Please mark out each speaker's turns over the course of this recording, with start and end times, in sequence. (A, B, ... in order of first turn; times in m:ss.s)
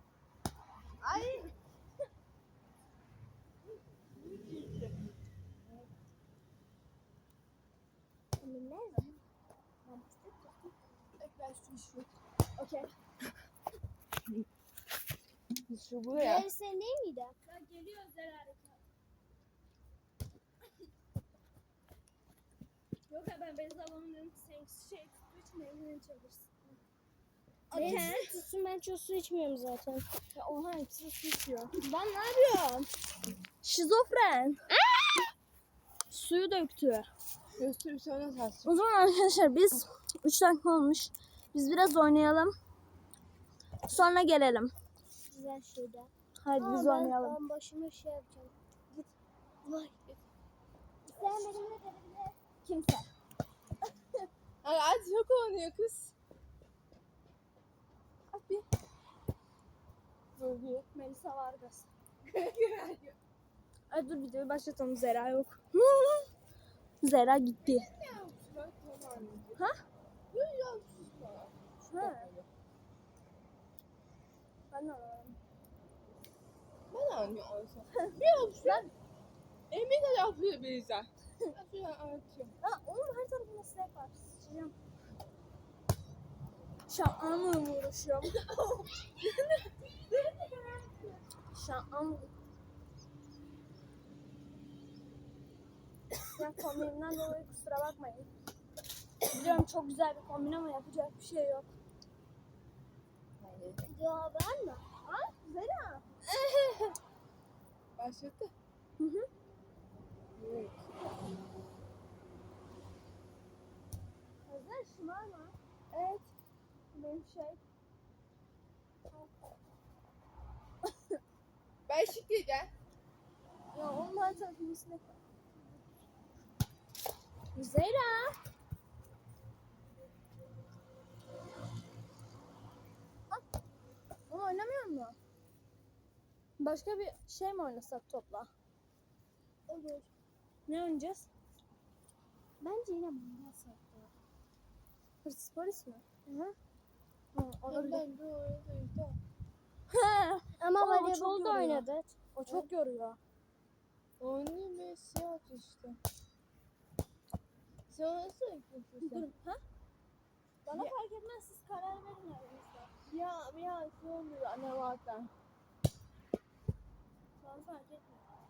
0:01.0-0:01.5 A
0:04.1-0:04.9 A
0:08.4-0:09.2 B
0:09.8-0:10.7 C
0:11.2-0:12.1 A
0:12.6-0:12.9 C
0:15.7-0:16.5 A
0:16.1-0:17.4 B
0:17.4-0:18.8 C
0:23.1-0:26.5 C
0:27.7-0:28.1 A
0:27.7-0:28.4 C
0:27.7-0:30.1 B
0:30.3-0:32.9 C
0:33.6-0:34.6 C
0:34.9-0:35.3 B
0:36.1-0:37.1 C
0:37.6-0:38.7 A
0:38.6-0:42.5 C
0:43.9-0:44.7 C
0:45.3-0:48.6 B
0:46.4-0:47.4 C
0:49.6-0:49.9 B
0:51.1-0:52.4 B
0:52.6-0:53.1 C
0:54.6-0:56.1 A
0:58.4-0:58.6 C
1:00.4-1:00.9 A
1:00.9-1:01.9 C
1:02.2-1:03.2 A
1:03.9-1:06.3 C
1:07.0-1:07.9 C
1:07.6-1:09.6 A
1:10.3-1:12.5 A
1:11.8-1:12.3 C
1:14.7-1:15.4 C
1:16.9-1:18.9 A
1:17.9-1:18.9 C
1:19.7-1:22.5 A
1:22.6-1:24.8 C
1:26.9-1:28.5 C
1:30.0-1:31.2 B
1:31.5-1:32.3 C
1:36.2-1:38.3 C
1:39.3-1:41.7 C
1:43.4-1:43.8 A
1:43.9-1:44.8 B
1:45.0-1:46.0 C
1:48.0-1:48.5 A
1:49.0-1:49.3 C
1:50.4-1:51.0 A
1:54.4-1:55.6 C
1:55.9-1:56.3 A
1:56.9-1:57.6 C
2:01.9-2:02.7 A
2:03.7-2:05.2 C
2:07.6-2:08.4 C
2:14.3-2:15.2 C
2:16.6-2:18.5 C
2:19.7-2:20.1 B
2:20.7-2:21.3 C
2:22.6-2:24.1 B
2:25.2-2:26.0 C
2:26.3-2:26.6 B
2:27.3-2:28.0 C
2:27.7-2:29.2 A
2:29.9-2:33.2 C
2:30.6-2:32.2 B
2:34.2-2:36.0 A
2:37.9-2:39.3 A
2:39.0-2:39.6 C
2:40.6-2:42.9 C
2:40.7-2:41.0 A
2:43.1-2:45.3 A
2:47.4-2:48.3 C